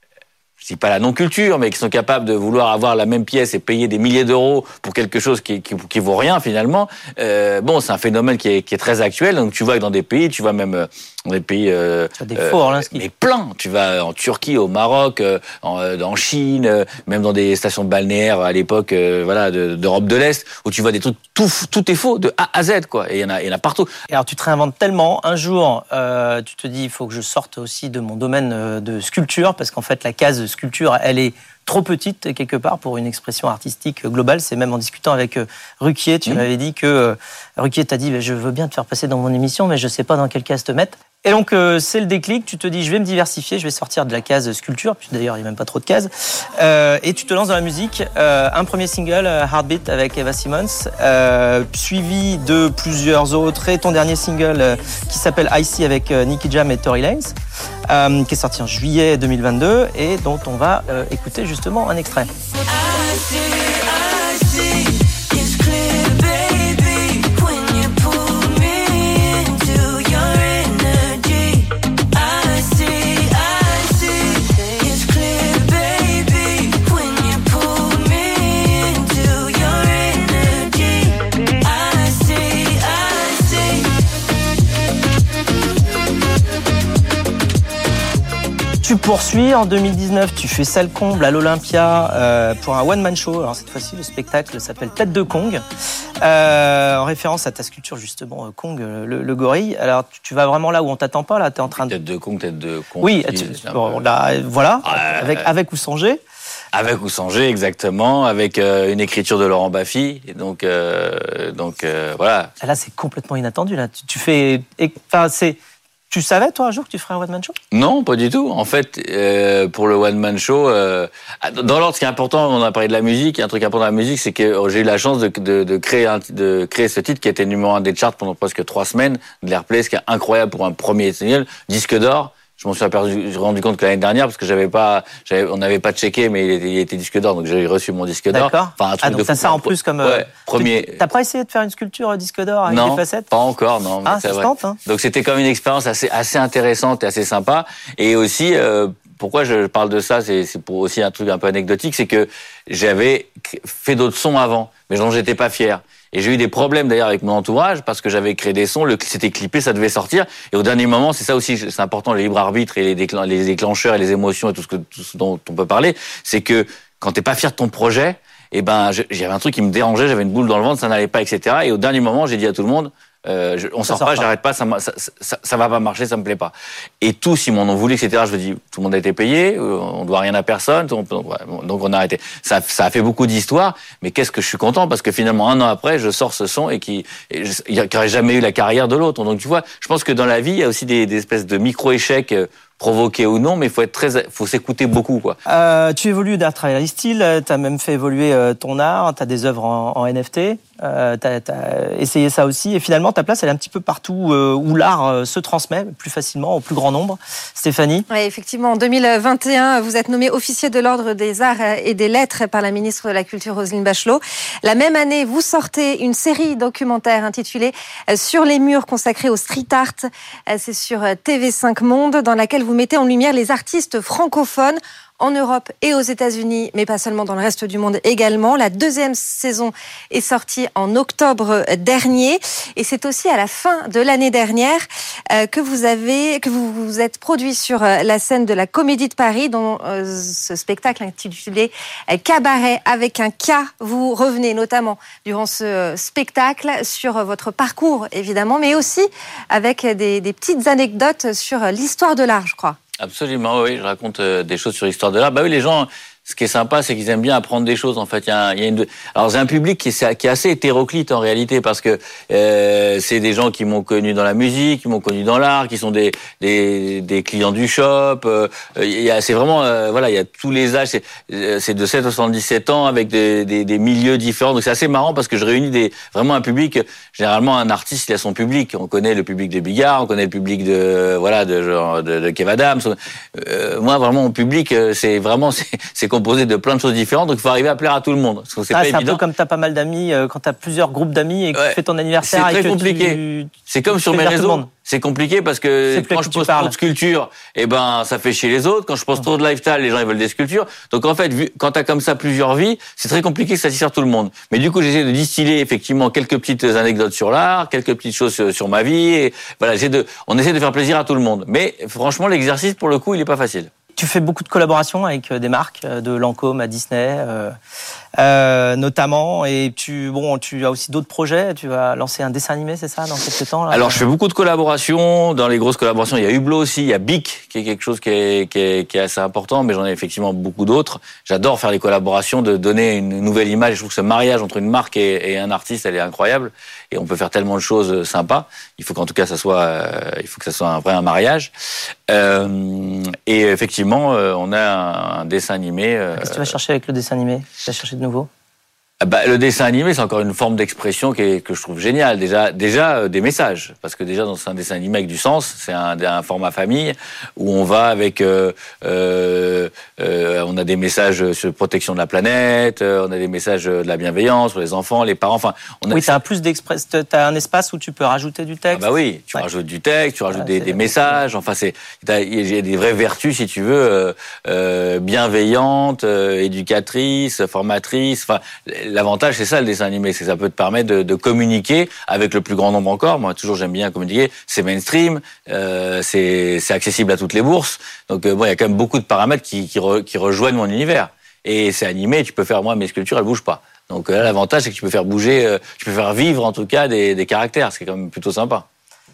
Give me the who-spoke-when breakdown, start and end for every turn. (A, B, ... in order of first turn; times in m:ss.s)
0:00.6-0:23.9 A
0:12.2-0:13.0 B
0:24.1-0:57.4 B
0:57.9-1:02.3 B
1:28.8-1:35.6 B
1:36.2-1:41.9 B
1:41.9-1:44.0 A
1:43.0-1:46.2 B
1:44.8-1:45.5 A
1:46.7-1:52.5 A
1:52.6-1:55.6 B
1:56.1-1:57.6 B
1:57.7-2:21.1 A
2:18.3-2:23.3 B
2:22.6-3:15.4 A
2:24.0-2:24.8 B
2:53.9-2:54.2 B
3:15.4-3:28.0 B
3:28.1-4:12.8 C
4:13.0-4:49.2 A
4:48.7-4:54.7 B
4:51.5-5:13.7 A
4:55.9-4:56.7 B
5:14.0-5:17.5 B
5:18.2-5:24.1 B
5:23.7-5:41.5 A
5:42.1-5:46.5 A
5:46.2-5:48.3 B
5:49.0-6:06.2 A
6:05.9-6:08.8 B
6:08.7-6:38.6 A
6:10.3-6:11.2 B